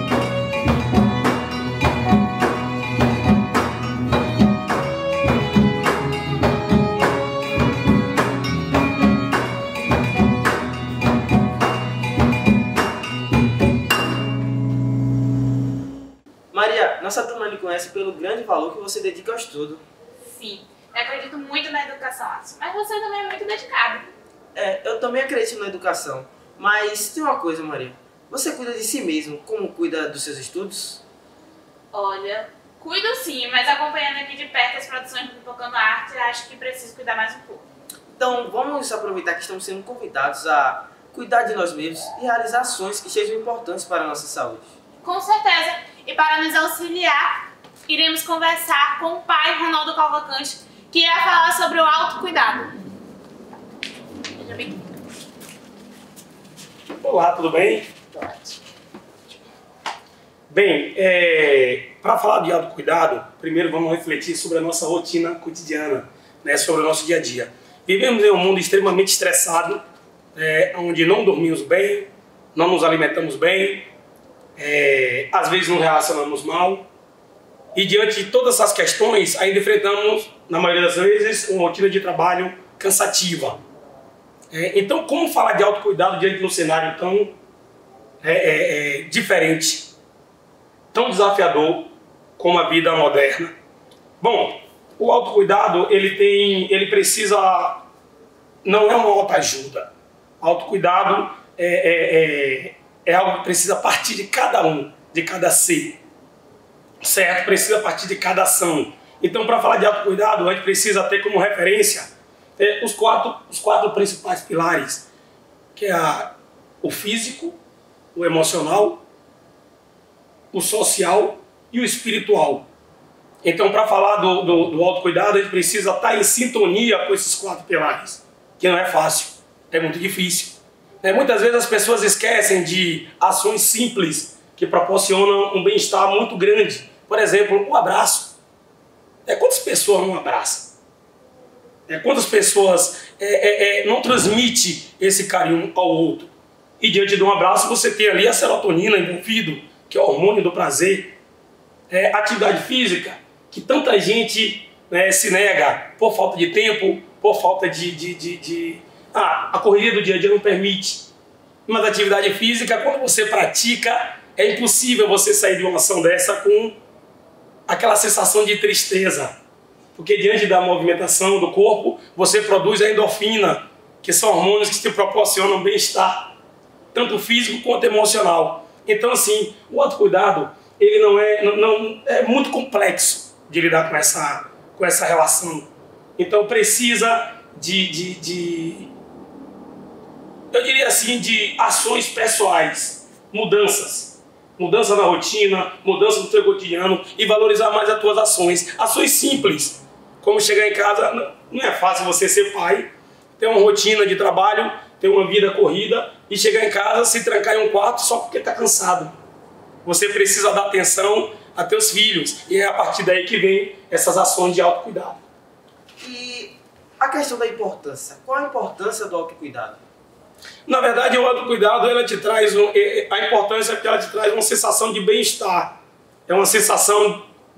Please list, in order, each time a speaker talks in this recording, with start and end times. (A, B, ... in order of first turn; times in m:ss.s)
0:16.5-0:19.8 A
0:20.2-0:24.1 B
0:24.5-0:31.0 A
0:31.9-0:37.6 B
0:38.1-0:44.7 A
0:45.0-0:52.7 B
0:54.3-0:54.8 B
0:57.0-0:58.0 C
0:58.1-0:58.6 B
1:00.5-1:09.8 C
1:10.3-1:13.9 C
1:14.6-1:16.8 C
1:17.7-1:23.6 C
1:24.5-1:27.3 C
1:28.2-1:29.9 C
1:30.9-1:33.5 C
1:34.2-1:37.8 C
1:38.6-1:39.9 C
1:40.4-1:46.0 C
1:47.0-1:55.0 C
1:55.8-1:57.6 C
1:58.1-1:59.0 C
2:00.5-2:02.6 C
2:03.4-2:18.3 C
2:19.2-2:20.7 C
2:21.9-2:31.1 C
2:31.9-2:41.1 C
2:41.7-2:46.8 C
2:47.7-2:49.3 C
2:49.9-2:56.3 C
2:56.9-3:08.9 C
3:10.5-3:29.2 C
3:29.8-3:35.2 C
3:36.0-3:39.8 A
3:40.7-3:45.8 C
3:46.3-3:47.3 C